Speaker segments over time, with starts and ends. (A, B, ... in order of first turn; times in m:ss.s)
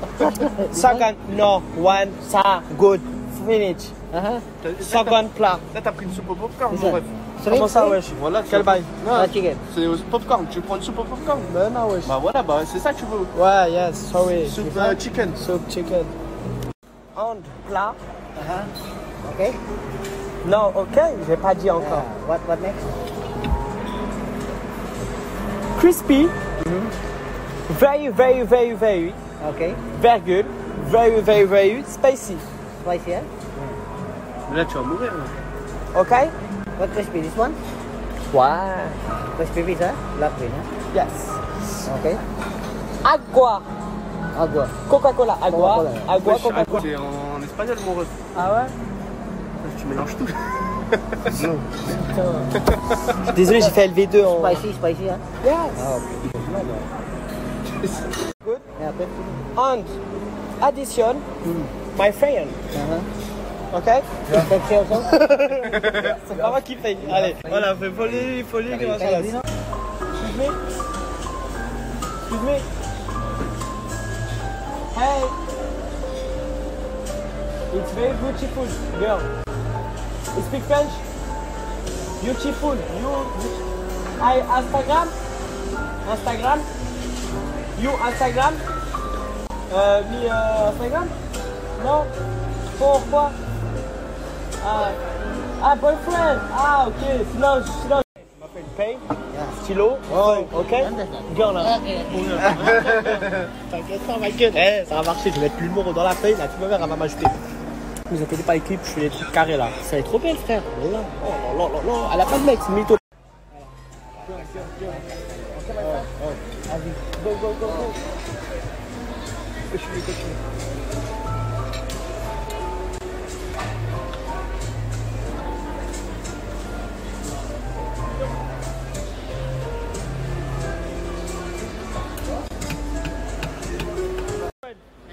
0:00.2-0:01.1 A
0:00.7-0:03.9 B
0:04.1-0:04.4 A
0:04.6-0:07.1 C
0:04.8-0:05.6 B
0:06.7-0:08.0 A
0:07.5-0:08.9 B
0:08.2-0:11.5 C
0:09.1-0:09.6 A
0:11.4-0:12.2 B
0:12.0-0:13.3 C
0:13.3-0:16.1 B
0:14.4-0:15.4 C
0:17.2-0:18.0 B
0:18.4-0:18.7 A
0:19.2-0:19.6 A
0:20.4-0:22.1 B
0:21.8-0:22.9 A
0:25.8-0:26.3 B
0:26.6-0:26.9 A
0:27.7-0:29.2 B
0:29.4-0:29.8 A
0:29.9-0:32.4 B
0:32.8-0:33.8 A
0:34.5-0:35.3 C
0:35.9-0:36.3 B
0:36.8-0:37.6 A
0:38.3-0:39.0 B
0:39.3-0:40.7 A
0:40.9-0:41.6 B
0:41.9-0:42.2 A
0:43.0-0:43.7 B
0:44.3-0:44.7 A
0:44.9-0:46.9 B
0:45.5-0:46.1 A
0:46.2-0:48.1 C
0:48.3-0:48.8 B
0:49.6-0:51.8 C
0:51.8-0:52.5 B
0:52.6-0:53.2 C
0:53.3-0:54.6 B
0:54.3-0:56.2 A
0:55.4-0:56.2 B
0:56.4-0:56.8 C
0:58.8-0:59.4 A
0:59.5-1:00.0 B
1:00.6-1:01.3 B
1:01.4-1:01.7 A
1:01.9-1:02.6 B
1:02.7-1:03.1 A
1:03.7-1:04.2 B
1:04.3-1:09.4 A
1:05.1-1:09.4 B
1:05.4-1:06.2 C
1:10.2-1:10.6 B
1:12.2-1:12.7 B
1:14.9-1:15.4 B
1:17.7-1:19.3 B
1:20.3-1:21.0 B
1:22.2-1:23.6 B
1:24.2-1:25.1 B
1:26.0-1:26.7 B
1:27.8-1:28.6 B
1:29.7-1:31.1 B
1:31.8-1:32.1 B
1:32.7-1:33.4 B
1:34.6-1:35.0 B
1:35.6-1:39.0 B
1:39.3-1:42.9 A
1:39.6-1:47.4 B
1:42.4-1:43.4 C
1:48.1-1:53.0 B
1:54.7-1:55.0 A
1:55.6-1:56.1 A
1:55.6-1:57.9 B
1:59.7-2:00.4 C